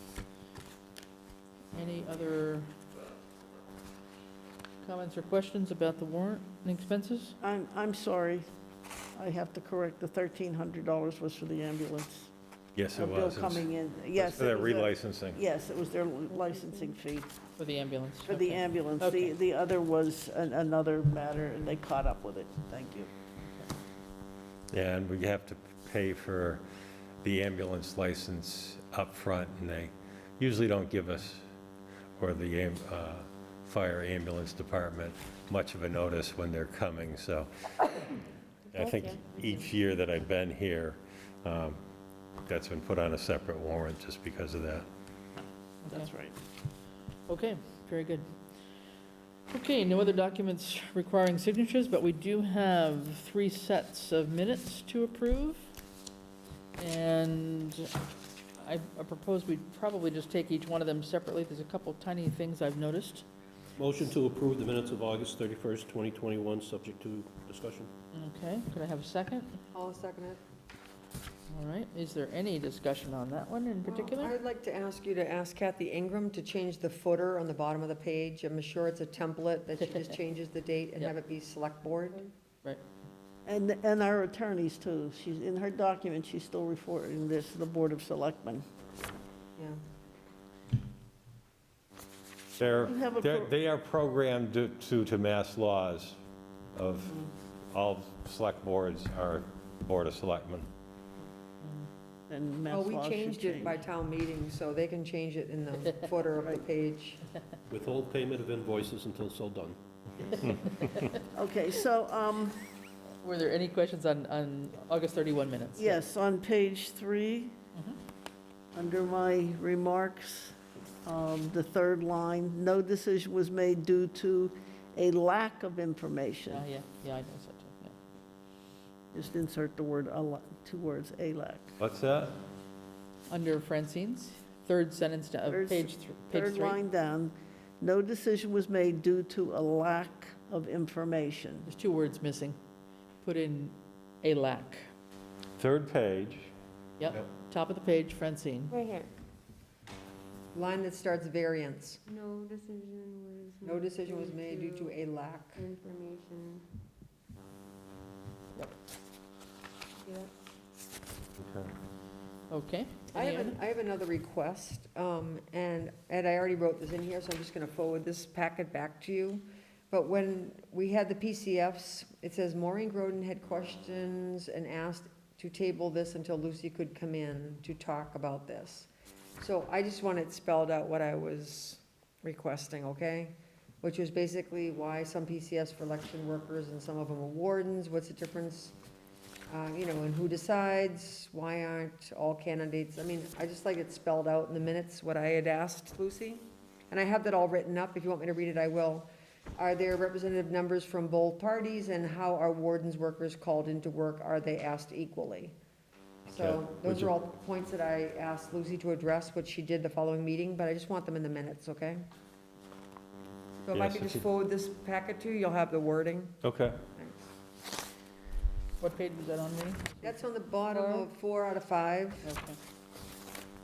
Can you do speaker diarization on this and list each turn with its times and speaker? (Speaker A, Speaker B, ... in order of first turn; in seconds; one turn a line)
Speaker A: 1.7-2.7
Speaker A: 4.8-7.4
Speaker B: 7.4-8.4
Speaker B: 9.2-12.3
Speaker C: 12.8-15.4
Speaker B: 12.9-17.3
Speaker A: 17.6-19.4
Speaker B: 18.3-23.1
Speaker C: 24.7-26.6
Speaker C: 27.2-31.4
Speaker C: 32.2-37.9
Speaker D: 38.7-39.2
Speaker C: 38.7-41.8
Speaker C: 42.5-44.9
Speaker A: 45.8-46.1
Speaker B: 45.9-46.4
Speaker A: 47.3-48.3
Speaker A: 49.5-55.6
Speaker A: 56.8-57.9
Speaker A: 58.6-63.2
Speaker E: 63.8-67.9
Speaker A: 68.1-69.6
Speaker F: 69.7-70.4
Speaker A: 71.5-74.3
Speaker F: 73.9-82.3
Speaker B: 83.5-88.7
Speaker C: 92.6-96.2
Speaker B: 92.8-93.5
Speaker C: 96.7-100.7
Speaker B: 102.3-103.8
Speaker F: 102.7-107.2
Speaker E: 107.7-109.8
Speaker A: 110.3-111.1
Speaker B: 111.3-112.6
Speaker A: 113.2-116.0
Speaker B: 115.8-117.6
Speaker B: 118.7-126.7
Speaker A: 126.5-128.0
Speaker B: 129.1-131.8
Speaker C: 131.8-132.4
Speaker A: 133.3-136.8
Speaker B: 135.5-141.7
Speaker A: 141.7-142.6
Speaker A: 143.2-144.9
Speaker C: 145.6-146.5
Speaker A: 147.0-148.7
Speaker D: 148.7-149.1
Speaker F: 150.5-152.0
Speaker D: 152.1-155.0
Speaker F: 153.7-155.7
Speaker D: 155.6-156.7
Speaker D: 160.0-160.3
Speaker C: 161.4-161.7
Speaker A: 162.5-163.6
Speaker F: 163.1-188.8
Speaker F: 189.5-205.5
Speaker C: 206.3-207.1
Speaker F: 206.3-212.1
Speaker F: 213.6-216.4
Speaker C: 213.7-214.3
Speaker C: 216.4-216.8
Speaker F: 217.0-217.2
Speaker A: 218.8-220.1
Speaker F: 220.0-222.3
Speaker A: 220.7-221.1
Speaker A: 222.2-222.6